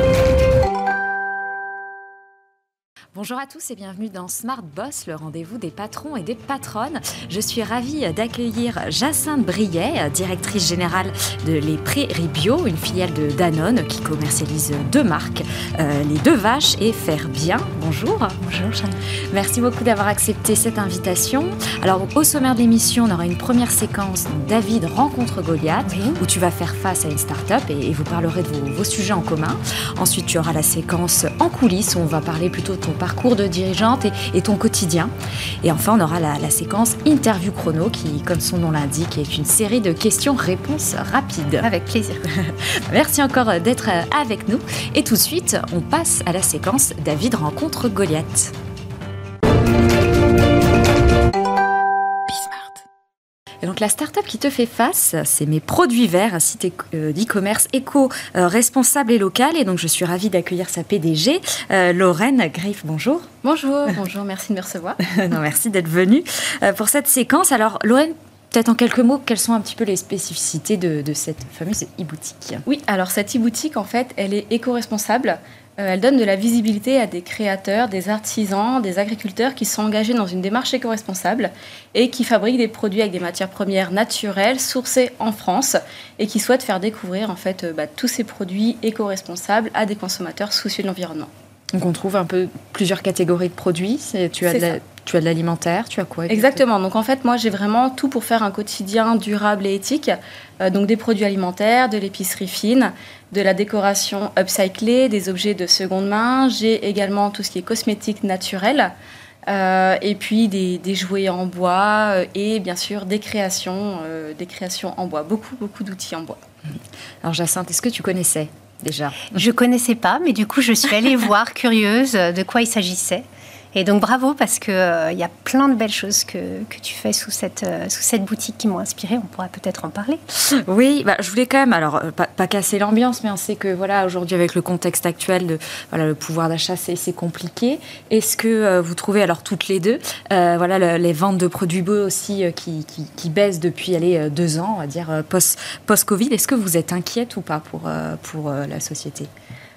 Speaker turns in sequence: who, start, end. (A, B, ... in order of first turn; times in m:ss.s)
0:03.1-0:18.4 A
0:18.4-0:19.0 B
0:19.3-0:41.7 A
0:25.9-0:26.2 B
0:41.6-0:42.2 B
0:42.3-0:48.5 A
0:52.3-0:52.8 C
0:53.6-1:03.3 A
1:03.4-1:05.0 C
1:05.0-1:12.6 A
1:12.6-1:31.3 C
1:31.7-1:36.6 A
1:36.3-1:48.9 C
1:49.5-1:56.4 C
1:57.2-1:59.4 A
1:59.3-2:10.2 B
2:10.5-2:29.3 A